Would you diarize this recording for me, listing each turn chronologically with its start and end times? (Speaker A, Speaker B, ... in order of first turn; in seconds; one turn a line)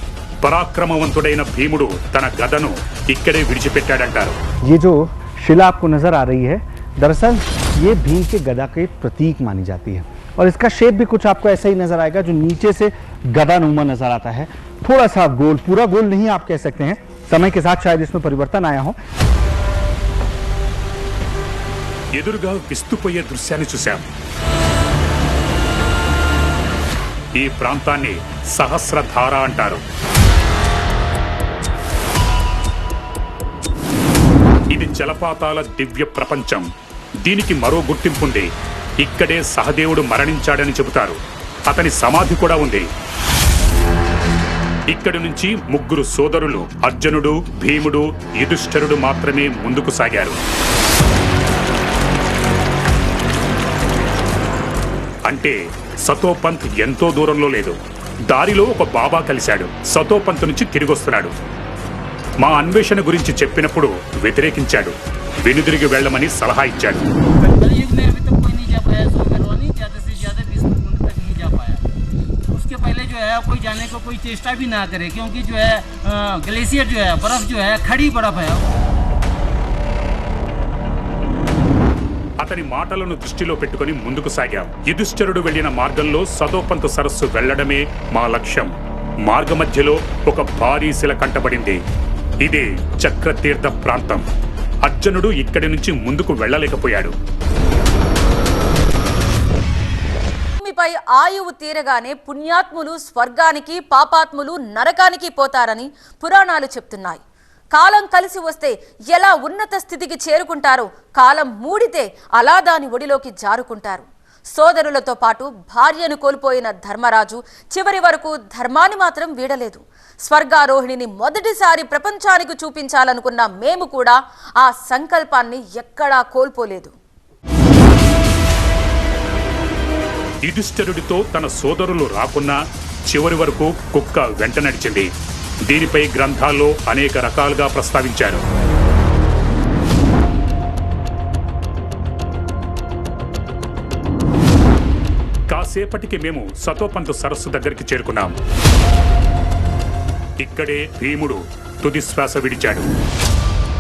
Speaker A: 0.4-4.4
Speaker B: 4.7-19.0
Speaker A: 22.1-24.0
Speaker A: 27.4-29.8
Speaker A: 34.7-36.7
Speaker A: 37.2-38.5
Speaker A: 39.0-42.9
Speaker A: 44.9-50.4
Speaker A: 55.3-57.8
Speaker A: 58.3-61.3
Speaker A: 62.4-67.1
Speaker C: 67.4-71.8
Speaker C: 72.5-78.7
Speaker A: 82.4-88.7
Speaker A: 89.3-91.8
Speaker A: 92.4-94.3
Speaker A: 94.8-97.1
Speaker D: 100.6-107.2
Speaker D: 107.7-126.9
Speaker A: 130.5-132.6
Speaker A: 133.1-135.1
Speaker A: 135.7-138.4
Speaker A: 145.5-148.4
Speaker A: 150.4-152.9